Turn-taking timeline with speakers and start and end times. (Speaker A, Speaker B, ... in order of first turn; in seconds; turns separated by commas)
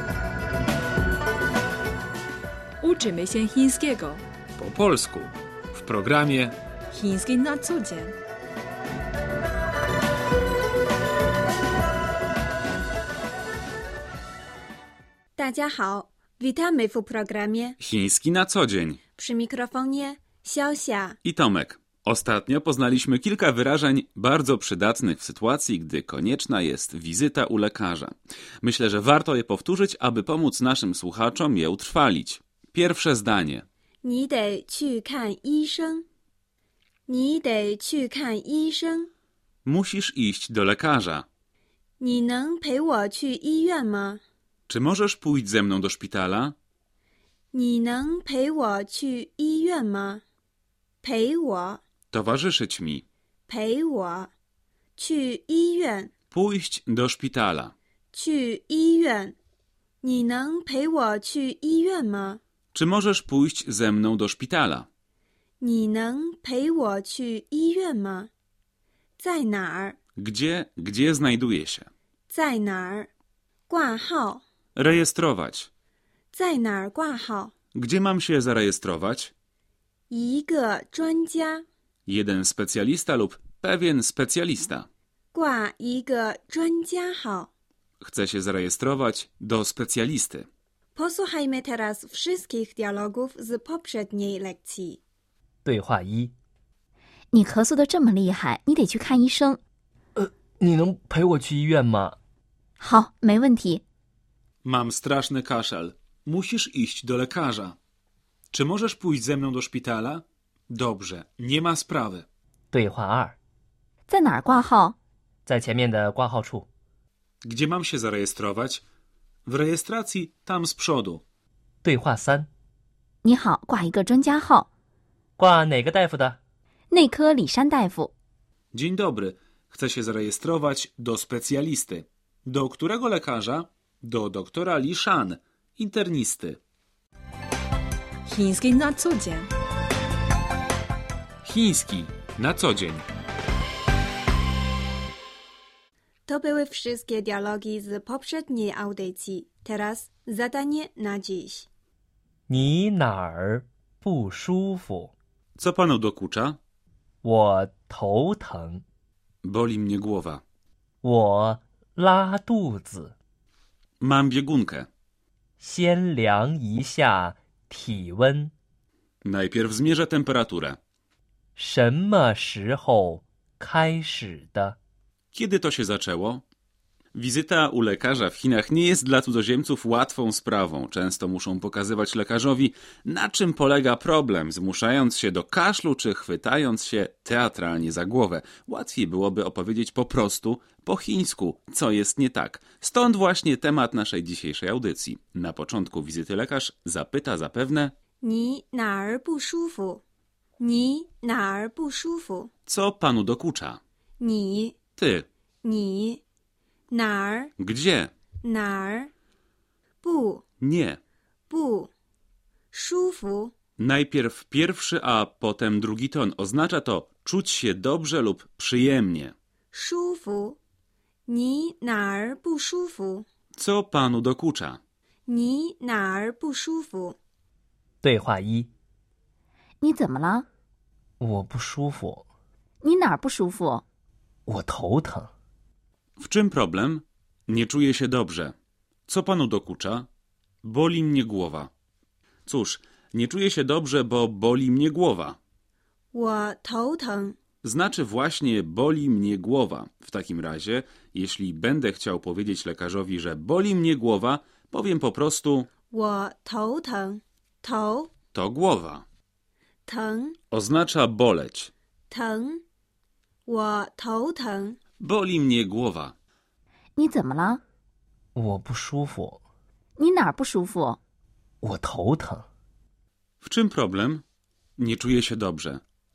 Speaker A: 2.8-4.2, Speaker B: 4.6-6.6, Speaker A: 6.9-8.1, Speaker C: 15.3-17.8, Speaker B: 17.8-19.0, Speaker C: 19.1-21.2, Speaker B: 21.2-33.6, Speaker C: 34.0-36.0, Speaker C: 37.1-39.1, Speaker B: 39.6-41.2, Speaker C: 42.0-44.2, Speaker B: 44.7-46.5, Speaker C: 47.5-50.2, Speaker C: 51.0-51.8, Speaker B: 52.1-53.0, Speaker C: 53.5-54.3, Speaker C: 55.0-56.1, Speaker B: 56.3-57.7, Speaker C: 58.1-59.4, Speaker C: 60.0-62.4, Speaker B: 62.7-64.9, Speaker C: 65.6-68.3, Speaker C: 69.2-70.0, Speaker B: 70.2-71.9, Speaker C: 72.3-73.1, Speaker C: 73.7-74.4, Speaker B: 74.8-75.7, Speaker C: 76.3-77.5, Speaker B: 77.7-79.3, Speaker C: 80.1-81.6, Speaker B: 82.1-84.9, Speaker C: 85.3-87.5, Speaker B: 88.0-90.5, Speaker C: 90.9-95.0, Speaker D: 95.6-96.3, Speaker E: 97.3-99.6, Speaker D: 100.2-102.2, Speaker E: 102.8-103.8, Speaker B: 104.6-107.8, Speaker B: 108.5-112.2, Speaker D: 112.7-113.4, Speaker E: 114.1-115.0, Speaker D: 115.5-116.7, Speaker B: 117.4-118.8, Speaker B: 119.5-121.2, Speaker D: 121.8-122.5, Speaker E: 123.2-124.7, Speaker D: 125.4-126.4, Speaker E: 126.9-128.1, Speaker B: 128.7-136.6, Speaker A: 138.2-139.5, Speaker B: 141.4-143.0, Speaker C: 146.3-151.7, Speaker D: 152.5-155.1, Speaker B: 155.6-156.6, Speaker D: 157.2-158.8, Speaker B: 159.4-160.4, Speaker D: 161.0-163.1, Speaker B: 164.0-164.9, Speaker D: 165.6-168.5, Speaker B: 169.2-170.8, Speaker D: 171.6-174.8, Speaker B: 175.3-176.4, Speaker B: 177.1-197.9, Speaker C: 198.2-200.0, Speaker C: 200.6-202.5, Speaker B: 202.7-203.8, Speaker C: 204.2-204.8, Speaker B: 205.0-205.3, Speaker C: 205.6-206.2, Speaker C: 206.9-207.5, Speaker B: 207.6-208.1, Speaker C: 208.4-209.1, Speaker C: 210.0-210.4, Speaker B: 210.6-211.0, Speaker C: 211.5-211.9, Speaker C: 212.7-213.5, Speaker B: 213.8-219.3, Speaker C: 219.7-220.6, Speaker C: 221.3-223.2, Speaker B: 223.6-224.8, Speaker C: 225.3-227.2, Speaker D: 228.0-228.7, Speaker E: 229.8-230.4, Speaker D: 231.2-232.2, Speaker E: 232.8-233.8, Speaker D: 234.5-235.3, Speaker B: 236.2-238.5, Speaker B: 239.1-240.1, Speaker B: 240.6-241.7, Speaker B: 242.4-245.4, Speaker C: 246.1-247.4, Speaker B: 247.6-255.7, Speaker C: 255.9-258.1, Speaker B: 258.3-259.0, Speaker C: 259.9-260.4, Speaker B: 260.5-261.7, Speaker C: 262.1-262.6, Speaker C: 263.4-264.8, Speaker B: 265.0-266.1, Speaker E: 266.9-267.6, Speaker D: 268.3-269.4, Speaker E: 270.0-271.0, Speaker D: 271.6-272.5, Speaker B: 273.4-274.2, Speaker B: 274.8-275.8